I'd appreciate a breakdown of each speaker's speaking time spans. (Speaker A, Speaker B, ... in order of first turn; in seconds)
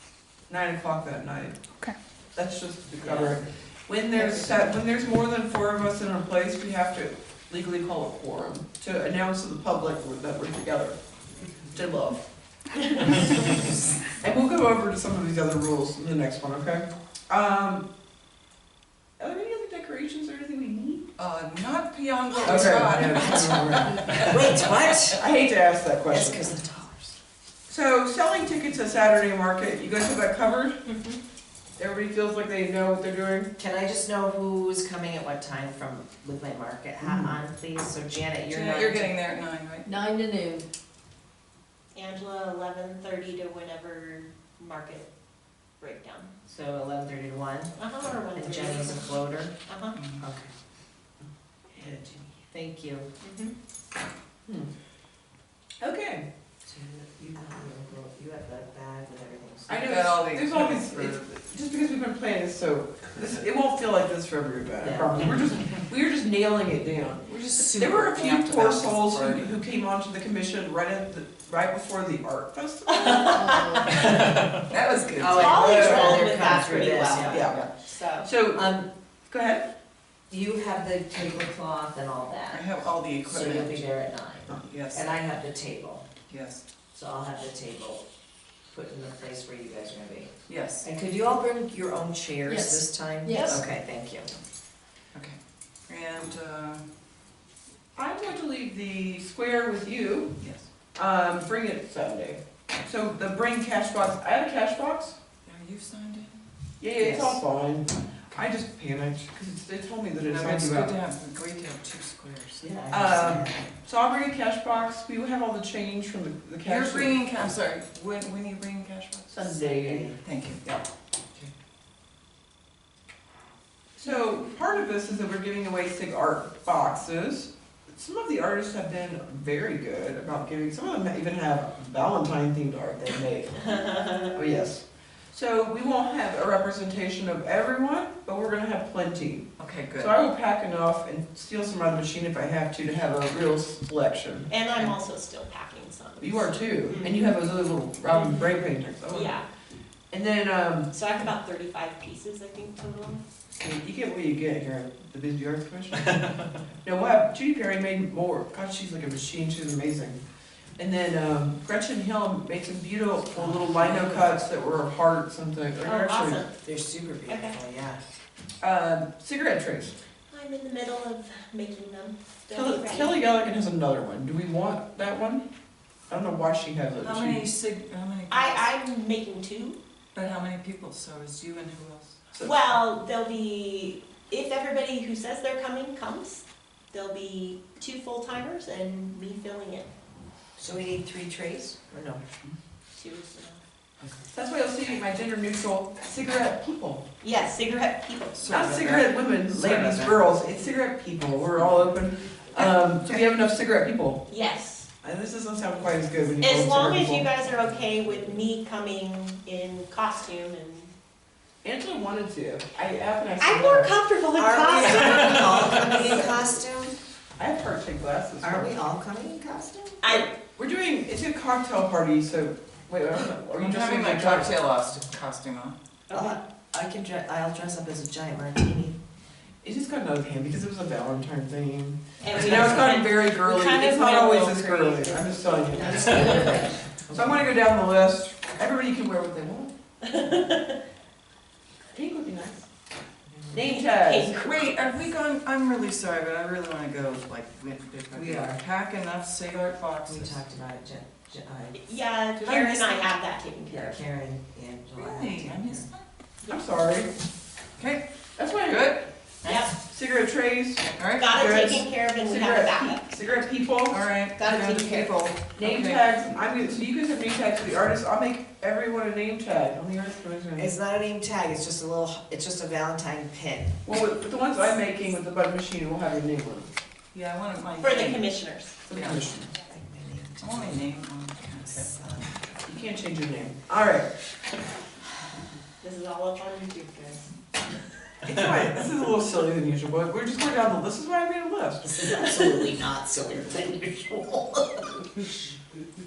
Speaker A: 0.5-1.6, 2.3-11.0, 11.7-12.2, 14.1-17.9, 19.2-21.1, 22.4-24.5, 25.1-26.5, 27.7-31.0, 31.8-33.5, 37.0-37.4, 51.8-52.2, 55.8-56.2, 59.7-73.4, 75.6-76.1, 77.2-77.7, 78.2-78.7, 79.3-79.7, 97.9-100.4, 100.9-105.2, 106.8-110.9, 112.9-117.2, 119.3-120.8, 124.0-144.5, 146.2-149.4, 150.1-150.9, 153.5-160.2, 160.8-166.4, 168.6-169.9, 172.5-175.5, 176.1-177.5, 194.3-197.0, 198.5-204.2, 205.0-207.3, 211.6-213.9, 214.8-216.3, 217.3-218.7, 220.5-224.6, 229.6-239.7, 241.9-242.7, 243.5-244.3, 256.5-257.1, 258.4-258.9, 259.8-264.9, 265.6-270.7, 273.8-276.7, 278.9-279.5, 282.6-284.1, 288.2-292.5
Speaker B: 3.0-3.5, 4.1-4.5, 24.2-25.2, 26.1-27.2, 33.6-39.1, 46.5-47.8, 48.3-49.5, 50.2-50.5, 52.5-53.1, 56.6-59.9, 64.8-65.3, 75.2-77.6, 78.5-78.9, 80.3-82.7, 83.2-86.1, 86.9-88.0, 88.7-94.3, 107.0-107.4, 112.6-113.7, 119.5-120.2, 163.3-164.4, 166.6-168.0, 190.6-192.2, 214.3-216.9, 218.4-220.3, 226.1-229.0, 235.8-237.4, 243.3-243.7, 248.1-248.6, 250.1-251.8, 253.7-255.8, 270.6-273.8, 279.5-280.8, 281.6-282.4, 291.8-294.9
Speaker C: 12.8-13.2, 41.9-45.1, 45.8-46.4, 47.7-50.0, 53.2-53.5, 72.9-74.2, 75.3-78.3, 93.3-93.6, 124.0-124.6, 133.7-134.3, 144.5-147.3, 148.1-149.4, 150.9-153.2, 165.8-166.5, 167.3-167.6, 170.3-173.2, 178.3-179.8, 182.4-189.9, 192.9-193.6, 197.2-198.6, 204.3-204.9, 206.4-210.9, 213.4-216.2, 220.0-220.3, 226.1-226.4, 232.2-236.7, 240.0-240.8, 243.5-244.7, 251.7-253.9, 259.4-259.7, 261.1-263.1, 264.4-265.2, 277.8-278.8, 285.8-287.3
Speaker D: 13.0-13.9, 21.2-25.1, 38.5-39.9, 50.0-50.2, 59.8-61.3, 67.2-69.5, 74.0-76.2, 82.5-83.9, 84.5-85.1, 86.3-86.6, 90.5-90.8, 93.3-93.7, 95.1-96.8, 100.4-100.7, 105.4-106.4, 110.2-112.7, 116.6-119.5, 120.2-120.6, 139.6-140.2, 177.0-178.7, 180.1-182.2, 198.4-200.3, 223.5-225.8, 244.4-250.4, 252.4-253.0, 254.9-256.1, 257.8-258.0, 258.6-259.7, 260.9-261.4, 263.9-266.1, 277.1-278.3, 278.9-279.2, 280.4-281.9
Speaker E: 39.8-40.6, 73.3-74.0, 92.5-93.6, 236.0-236.7